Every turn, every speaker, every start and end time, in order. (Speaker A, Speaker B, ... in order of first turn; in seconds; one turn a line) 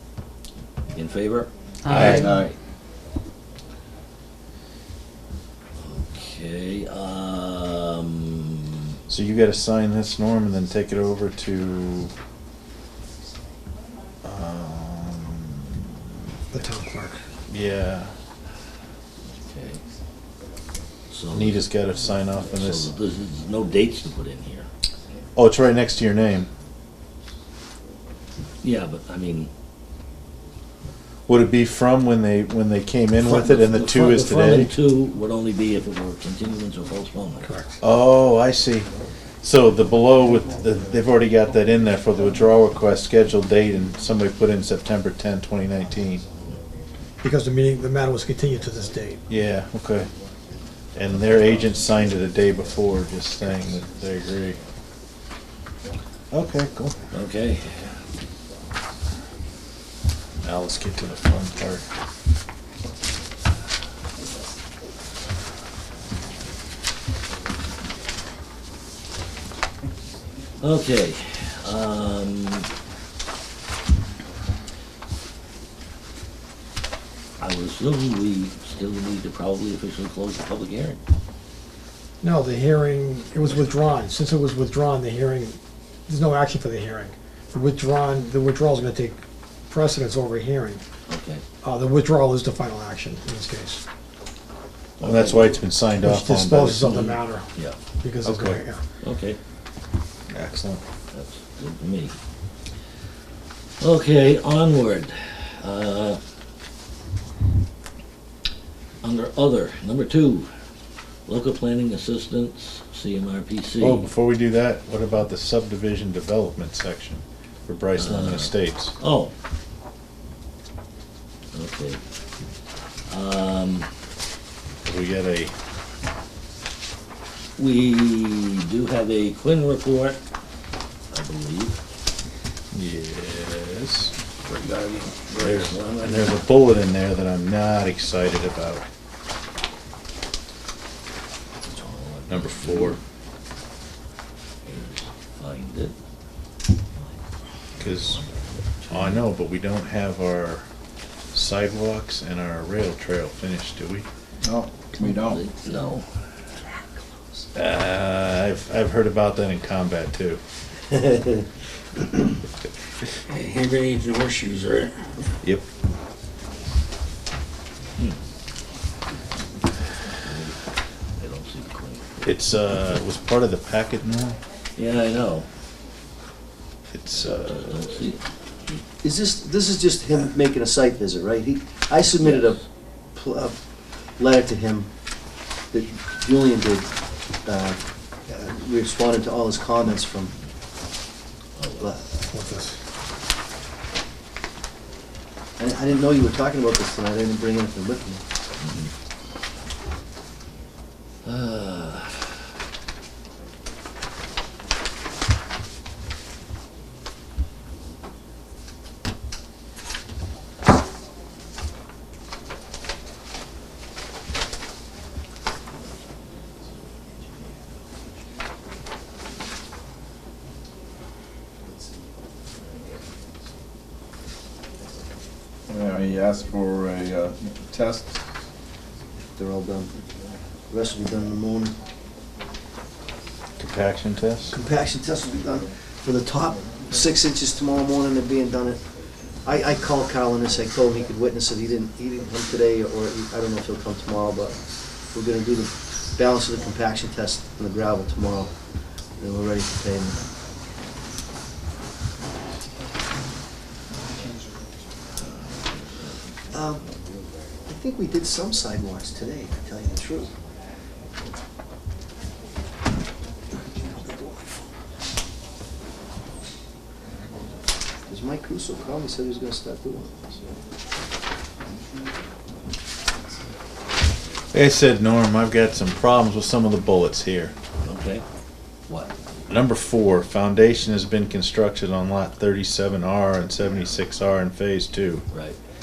Speaker A: 0.9-2.3
Speaker B: 1.9-2.3
Speaker C: 1.9-2.5
Speaker D: 1.9-2.2
Speaker A: 5.8-9.0
Speaker B: 9.1-12.1
Speaker B: 14.2-15.7
Speaker E: 16.5-17.2
Speaker B: 17.5-18.1
Speaker A: 19.4-19.8
Speaker A: 21.1-21.6
Speaker B: 21.3-22.9
Speaker A: 22.5-24.7
Speaker B: 25.4-26.5
Speaker A: 28.6-29.5
Speaker B: 31.3-34.7
Speaker A: 33.2-37.5
Speaker E: 37.4-37.8
Speaker B: 37.8-38.9
Speaker B: 39.4-46.2
Speaker E: 47.2-49.3
Speaker B: 49.3-50.1
Speaker B: 50.9-54.6
Speaker B: 56.3-57.0
Speaker A: 57.1-57.7
Speaker B: 60.4-61.8
Speaker A: 70.6-72.7
Speaker A: 77.4-81.0
Speaker E: 82.2-90.8
Speaker A: 91.1-91.4
Speaker E: 91.6-93.8
Speaker B: 95.0-97.2
Speaker A: 95.0-95.6
Speaker E: 96.0-97.5
Speaker E: 98.0-98.8
Speaker B: 98.2-98.6
Speaker A: 99.0-99.4
Speaker B: 100.3-100.8
Speaker A: 101.1-102.2
Speaker A: 103.8-106.2
Speaker A: 109.0-110.5
Speaker A: 111.3-114.0
Speaker B: 113.8-119.0
Speaker A: 118.0-119.3
Speaker A: 121.5-122.0
Speaker A: 123.1-123.9
Speaker B: 124.8-125.5
Speaker A: 127.6-130.2
Speaker A: 131.1-131.8
Speaker B: 132.7-134.1
Speaker A: 134.4-136.4
Speaker B: 135.4-138.8
Speaker A: 141.6-143.0
Speaker B: 142.3-143.0
Speaker A: 144.6-145.9
Speaker B: 147.8-148.2
Speaker A: 147.8-149.2
Speaker B: 148.9-150.7
Speaker B: 151.3-154.1
Speaker C: 154.4-155.4
Speaker A: 154.9-156.1
Speaker B: 157.5-160.4
Speaker F: 161.0-161.3
Speaker D: 163.3-165.1
Speaker A: 170.2-170.6
Speaker A: 171.2-172.1
Speaker B: 172.2-174.4
Speaker A: 174.8-175.5
Speaker B: 176.9-177.9
Speaker A: 177.2-178.2
Speaker F: 179.0-182.6
Speaker A: 182.1-182.6
Speaker F: 183.1-183.6
Speaker F: 184.2-184.9
Speaker F: 185.7-186.9
Speaker F: 187.4-190.3
Speaker A: 191.6-192.0
Speaker F: 191.8-192.1
Speaker E: 192.2-192.8
Speaker F: 195.6-198.2
Speaker A: 198.6-198.9
Speaker A: 201.2-202.3
Speaker C: 225.7-228.2
Speaker F: 229.4-229.9
Speaker F: 230.7-231.8
Speaker B: 233.6-234.5
Speaker F: 234.5-238.8
Speaker F: 239.4-248.5
Speaker F: 249.2-250.2
Speaker F: 256.5-256.8
Speaker F: 257.7-260.3
Speaker F: 268.1-270.3
Speaker B: 274.5-277.5
Speaker A: 277.8-278.2
Speaker A: 278.9-279.1
Speaker B: 279.5-285.2
Speaker A: 285.3-285.6